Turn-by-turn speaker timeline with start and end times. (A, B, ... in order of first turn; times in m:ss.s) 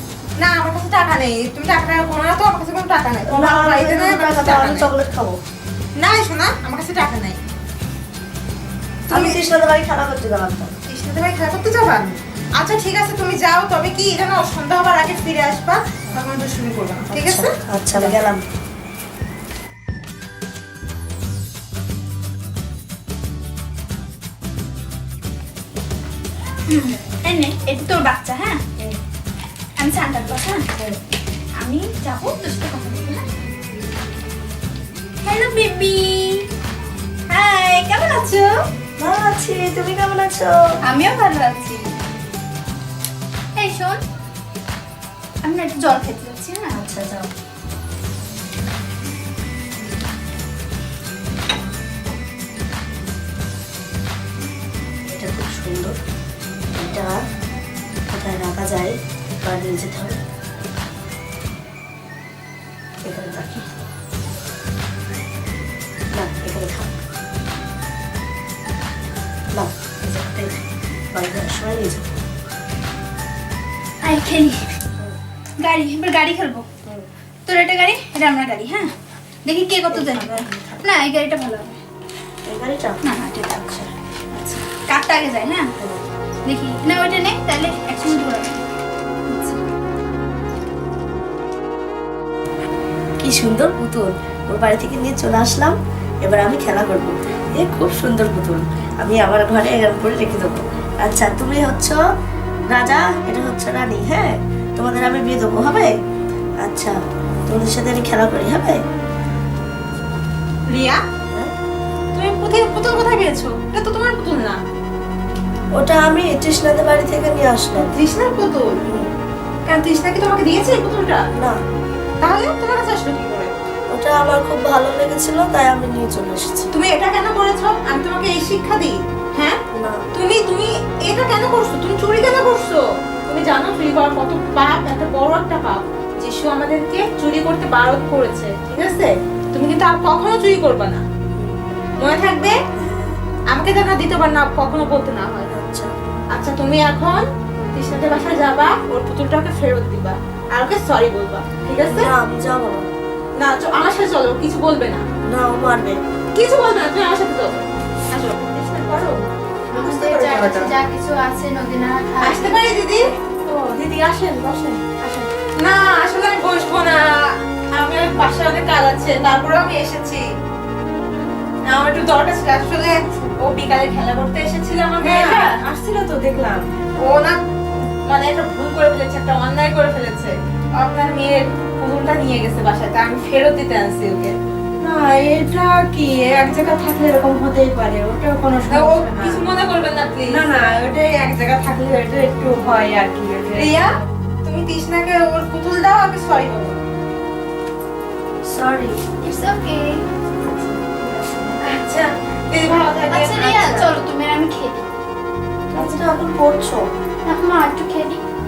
0:00.4-0:04.9 A
0:03.2-0:05.4 B
0:06.0-0:07.4 A
0:09.1-0:09.4 A
0:09.1-0:10.7 B
0:10.9-0:18.2 A
0:17.1-0:18.4 B
0:26.7-0:28.6 C
0:29.8-0:30.7 C
0:31.5-0:33.2 C
0:35.2-0:36.5 C
0:37.3-0:38.6 C
0:39.0-0:40.6 B
0:40.8-0:41.9 C
0:43.6-0:44.0 C
0:45.4-0:46.8 C
0:46.7-0:47.3 B
0:55.1-0:56.0 B
0:56.7-0:57.2 B
0:58.1-1:00.2 B
1:03.0-1:03.7 B
1:06.1-1:06.9 B
1:09.5-1:12.1 B
1:14.0-1:14.8 C
1:15.6-1:16.6 C
1:17.4-1:18.9 C
1:19.4-1:21.8 C
1:19.9-1:20.6 B
1:22.4-1:23.0 B
1:23.0-1:25.7 C
1:26.4-1:28.6 C
1:29.3-1:29.6 C
1:33.2-1:42.0 B
1:42.7-1:45.9 B
1:46.6-1:48.8 B
1:50.7-1:51.0 A
1:52.1-1:54.6 A
1:55.7-1:57.9 B
1:57.8-1:58.8 A
1:59.7-2:01.2 A
2:02.2-2:03.6 A
2:03.9-2:06.7 B
2:06.7-2:09.6 A
2:09.7-2:10.0 B
2:10.1-2:21.0 A
2:21.4-2:21.7 B
2:22.0-2:22.6 A
2:22.8-2:23.2 B
2:23.5-2:25.5 A
2:25.5-2:25.9 B
2:26.3-2:32.1 A
2:31.8-2:32.9 B
2:33.4-2:35.0 A
2:35.2-2:36.0 B
2:36.3-2:39.2 A
2:39.7-2:42.6 C
2:39.7-2:40.7 D
2:42.2-2:43.0 A
2:43.5-2:45.3 D
2:45.6-2:50.2 A
2:51.7-2:55.6 A
2:55.0-2:56.7 D
2:57.0-2:57.4 A
2:58.0-3:04.3 A
3:04.8-3:09.4 D
3:08.7-3:10.8 A
3:10.3-3:13.9 D
3:13.5-3:16.8 A
3:18.4-3:19.0 B
3:19.2-3:20.0 C
3:21.6-3:23.9 A
3:23.1-3:24.8 C
3:25.7-3:26.8 B
3:27.2-3:28.2 C